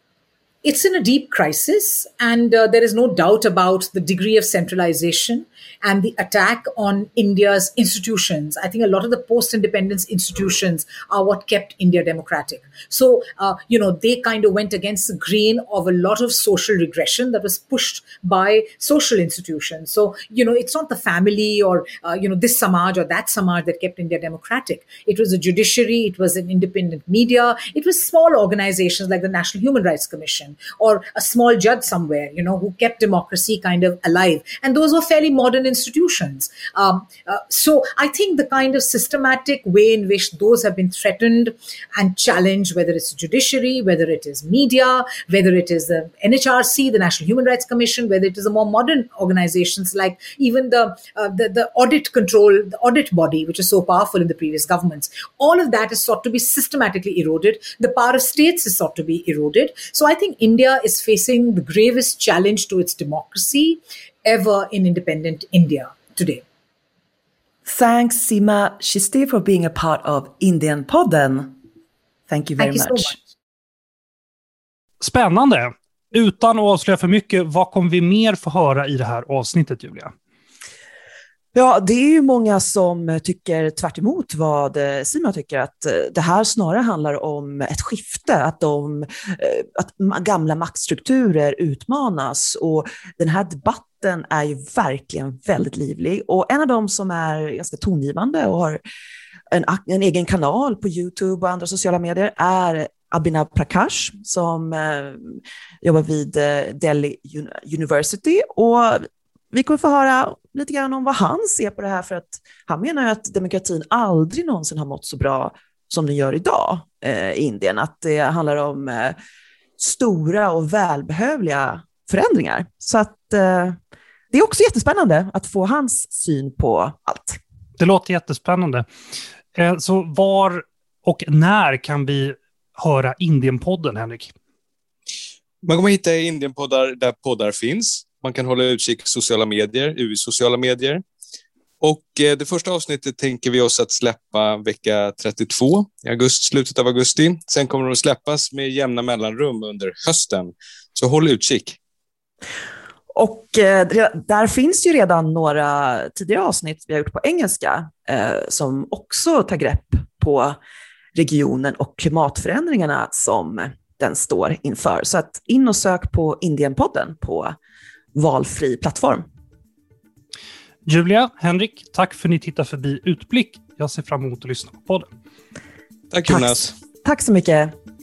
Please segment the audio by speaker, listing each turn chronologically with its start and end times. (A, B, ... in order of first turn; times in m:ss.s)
0:00.6-1:06.4 A
1:07.6-1:11.6 B
1:12.3-1:13.1 B
1:12.6-1:13.2 A
1:15.0-1:20.1 C
1:21.5-1:38.8 B
1:39.5-1:59.2 B
1:59.8-2:03.8 B
2:04.3-2:07.4 B
2:07.8-2:08.8 C
2:09.5-2:14.3 C
2:15.6-2:21.0 D
2:21.8-2:31.8 D
2:33.1-2:40.6 B
2:41.1-2:47.6 B
2:48.1-2:49.2 B
2:50.8-2:55.1 C
2:56.1-2:56.7 D
2:56.3-2:57.7 B